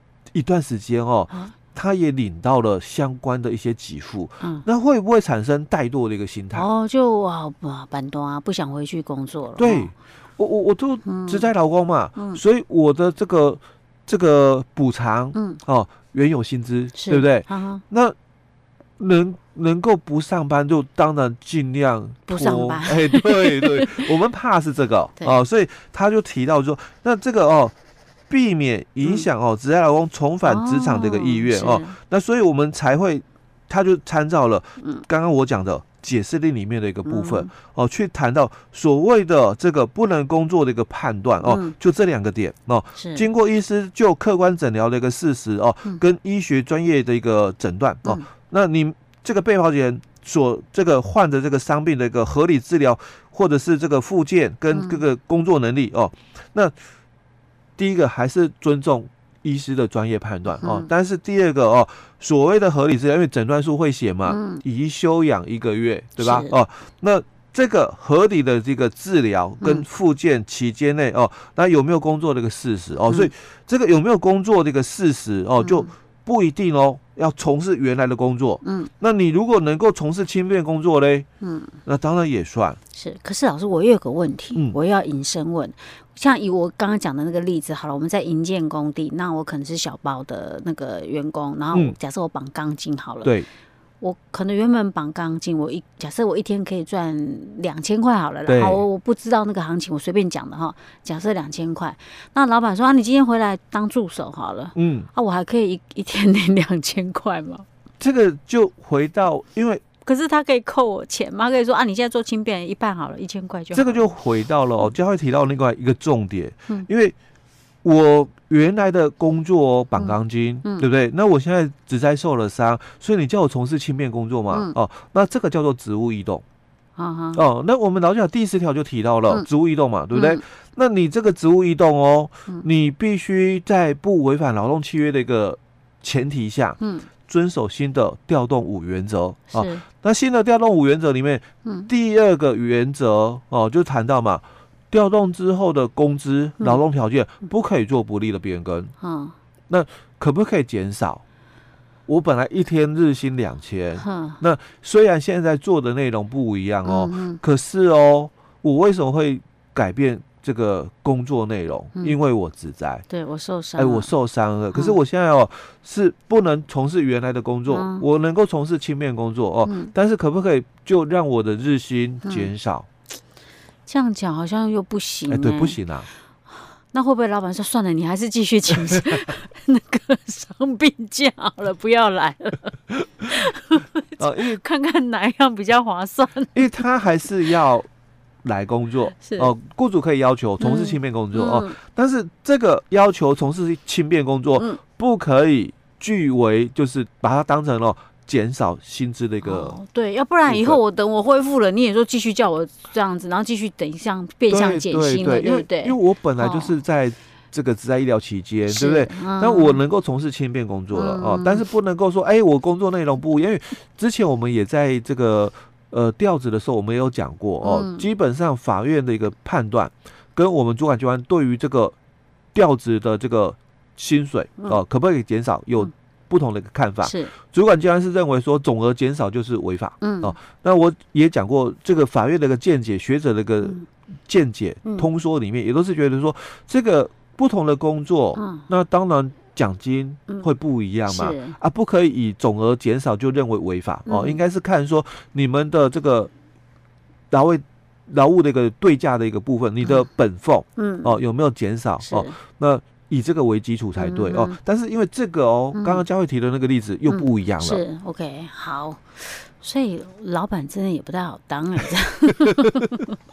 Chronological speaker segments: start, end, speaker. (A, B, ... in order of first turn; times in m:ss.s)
0:00.3-0:06.7 A
0:06.5-0:09.9 B
0:09.6-0:18.2 A
0:11.0-0:11.5 B
0:17.0-0:17.8 B
0:19.0-0:27.7 A
0:22.3-0:24.1 B
0:28.3-0:56.8 A
0:30.4-0:32.0 B
0:34.8-0:35.0 B
0:37.0-0:37.5 B
0:41.4-0:41.7 B
0:43.0-0:43.3 B
0:54.7-0:55.0 B
0:57.8-1:21.3 A
1:00.6-1:00.9 B
1:04.3-1:04.6 B
1:06.2-1:06.6 B
1:15.6-1:15.9 B
1:18.6-1:18.9 B
1:21.4-1:21.8 B
1:21.9-1:22.8 A
1:22.9-1:33.3 B
1:34.0-1:47.7 B
1:38.5-1:38.8 A
1:44.8-1:45.1 A
1:48.0-1:49.8 A
1:50.0-1:54.1 B
1:53.7-1:57.2 A
1:57.8-2:06.4 A
2:00.0-2:00.9 B
2:04.5-2:04.8 B
2:07.0-2:07.4 B
2:07.4-2:28.9 A
2:10.1-2:10.4 B
2:16.8-2:17.1 B
2:19.5-2:19.8 B
2:21.6-2:21.9 B
2:29.0-2:29.4 B
2:29.7-2:31.2 A
2:32.1-2:43.0 A
2:34.0-2:34.4 B
2:36.8-2:37.4 B
2:43.1-2:44.1 B
2:43.8-2:52.9 A
2:44.7-2:45.0 B
2:47.7-2:48.0 B
2:49.6-2:49.9 B
2:52.2-2:52.5 B
2:53.9-2:55.8 B
2:55.3-2:56.1 A
2:56.9-3:06.8 B
3:04.2-3:04.6 A
3:06.5-3:07.9 A
3:08.4-3:19.8 A
3:09.2-3:09.5 B
3:10.6-3:11.8 B
3:19.4-3:26.8 B
3:20.5-3:20.8 A
3:24.5-3:42.0 A
3:28.7-3:29.8 B
3:30.9-3:31.6 B
3:37.6-3:38.1 B
3:42.5-4:06.3 A
3:47.0-3:47.3 B
3:50.0-3:50.4 B
3:58.4-3:58.7 B
4:01.1-4:01.6 B
4:04.1-4:04.4 B
4:07.3-4:17.8 A
4:10.8-4:11.2 B
4:12.0-4:12.4 B
4:14.0-4:14.6 B
4:15.7-4:16.0 B
4:17.1-4:23.2 B